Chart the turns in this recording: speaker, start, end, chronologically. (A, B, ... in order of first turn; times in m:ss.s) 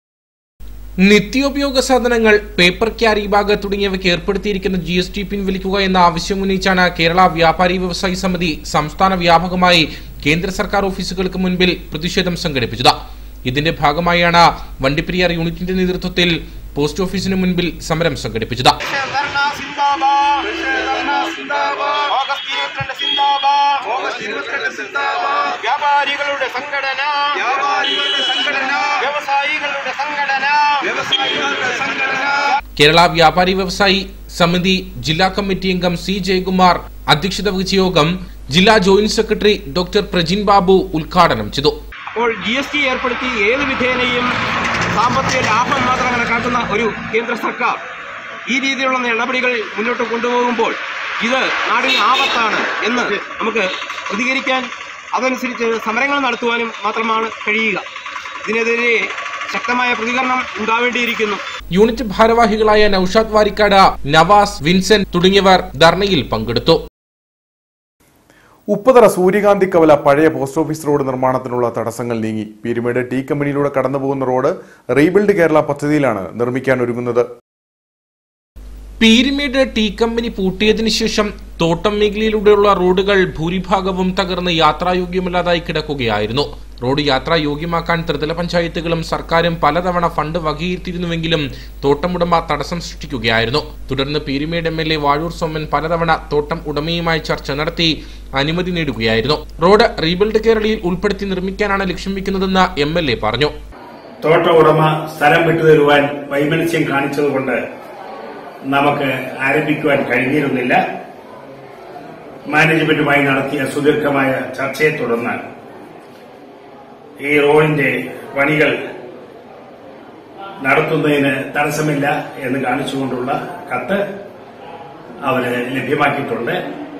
0:01.0-0:13.0 A
0:13.5-0:18.8 A
0:18.9-0:32.5 B
0:32.8-0:41.8 A
0:42.1-0:44.3 B
0:45.0-0:47.8 B
0:48.5-0:57.8 B
0:58.4-0:59.0 B
0:59.5-1:01.4 B
1:01.7-1:06.8 A
1:08.7-1:17.3 C
1:19.0-1:43.5 A
1:44.2-1:47.6 D
1:48.7-1:50.8 D
1:52.5-1:55.4 D
1:57.2-1:58.8 D
2:00.6-2:04.0 D
2:05.2-2:06.6 D